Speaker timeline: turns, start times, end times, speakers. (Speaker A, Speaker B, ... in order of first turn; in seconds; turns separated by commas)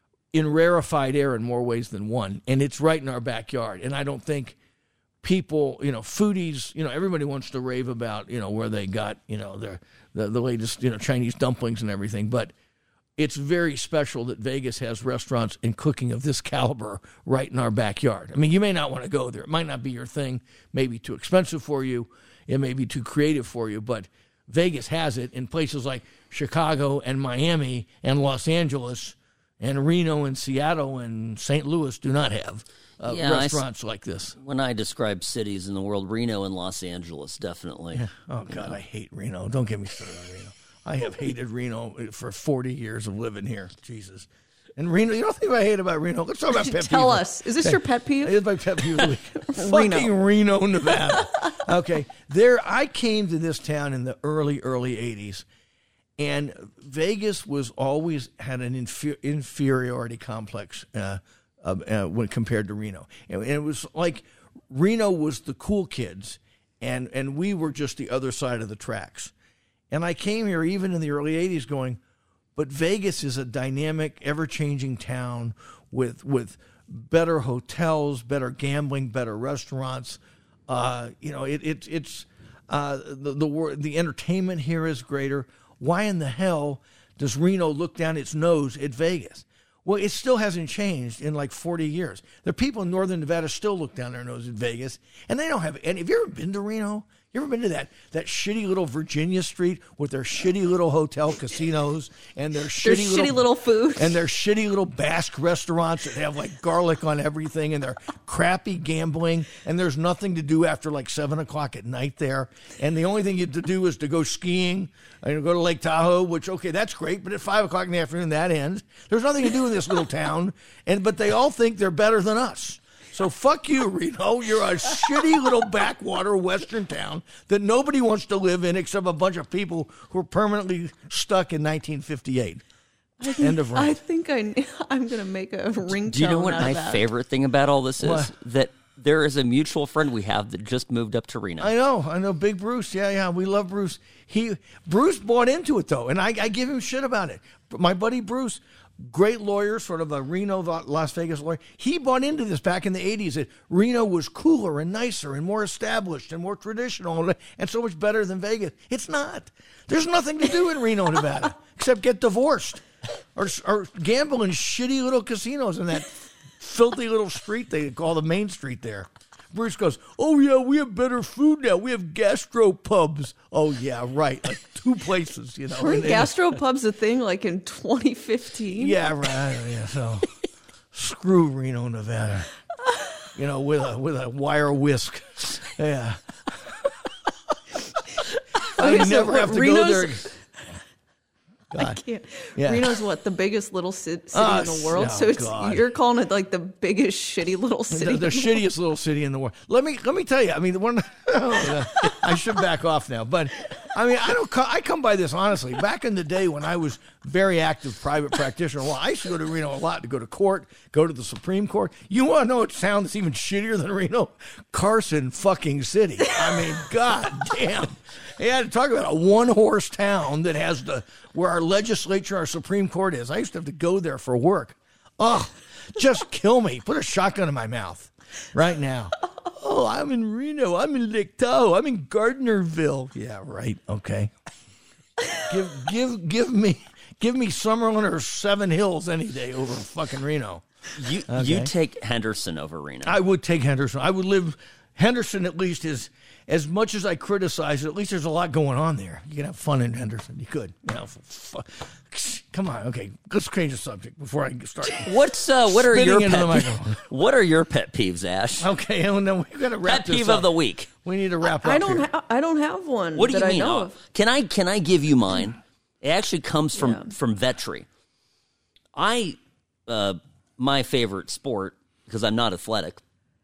Speaker A: 0.3-4.6, Speaker A: 5.2-12.5, Speaker A: 13.2-34.4, Speaker B: 33.0-33.6, Speaker B: 34.4-38.7, Speaker A: 37.9-55.5, Speaker C: 46.5-50.1, Speaker A: 56.2-69.3, Speaker A: 69.9-72.0, Speaker A: 72.5-103.4, Speaker C: 102.8-104.2, Speaker A: 104.0-132.6, Speaker C: 133.2-137.0, Speaker A: 133.2-134.0, Speaker B: 136.0-141.7, Speaker A: 138.0-138.3, Speaker A: 141.6-162.8, Speaker A: 163.3-176.5, Speaker C: 175.8-179.0, Speaker A: 178.7-180.3, Speaker A: 180.9-182.5, Speaker A: 183.3-190.3, Speaker C: 188.7-190.3, Speaker A: 191.7-192.0, Speaker C: 191.7-198.6, Speaker A: 192.6-193.0, Speaker A: 194.3-195.8, Speaker A: 197.9-234.3, Speaker A: 235.4-241.7, Speaker B: 240.9-243.2, Speaker A: 243.0-255.1, Speaker B: 254.9-258.7, Speaker A: 255.7-257.0, Speaker A: 258.6-262.1, Speaker B: 259.8-260.9, Speaker C: 261.4-263.9, Speaker B: 263.1-267.9, Speaker C: 266.8-267.1, Speaker B: 268.9-273.0